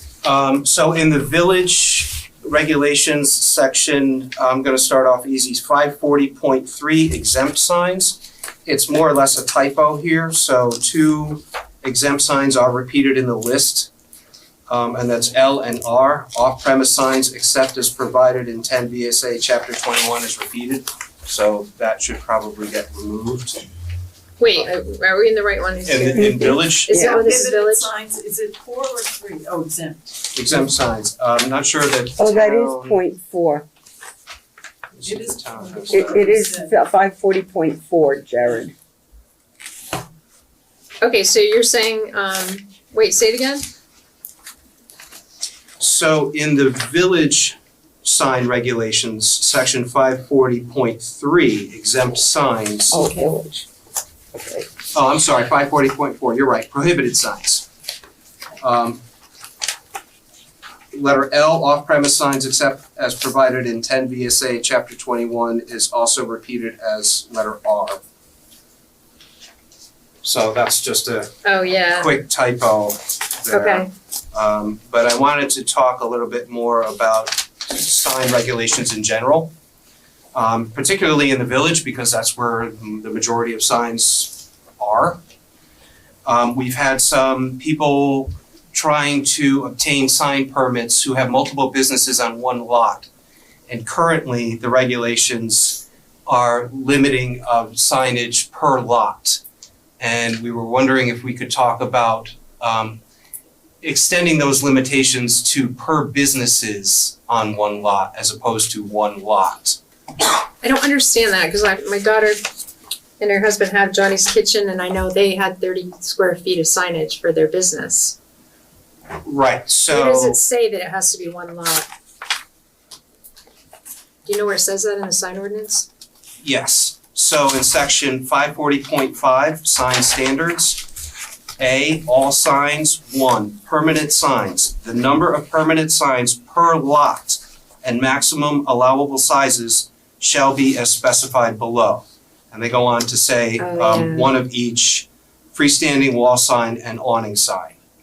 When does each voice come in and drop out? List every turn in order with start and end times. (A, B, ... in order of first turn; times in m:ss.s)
0:00.2-0:13.9 A
0:14.7-0:23.6 A
0:24.4-0:27.9 B
0:25.9-0:27.0 A
0:26.1-0:27.2 C
0:27.0-0:30.2 D
0:30.3-0:33.0 A
0:32.2-0:33.6 C
0:34.9-0:36.3 A
0:35.0-0:36.7 D
0:35.9-0:38.7 C
0:41.0-0:43.6 B
0:45.8-0:53.1 A
0:52.9-0:53.7 C
0:54.3-0:54.7 C
0:54.9-0:57.7 A
0:58.6-0:59.0 A
1:00.9-1:08.0 A
1:10.2-1:11.3 A
1:11.4-1:12.1 B
1:12.0-1:19.5 A
1:13.5-1:13.9 B
1:20.3-1:25.2 A
1:26.2-1:33.1 A
1:33.7-1:39.4 A
1:40.0-1:43.0 A
1:43.8-1:49.8 A
1:50.6-1:52.4 B
1:53.2-1:58.2 B
1:59.2-2:00.4 A
1:59.9-2:01.9 B
2:04.2-2:05.9 B
2:06.4-2:10.8 A
2:11.6-2:27.8 A
2:23.6-2:24.3 B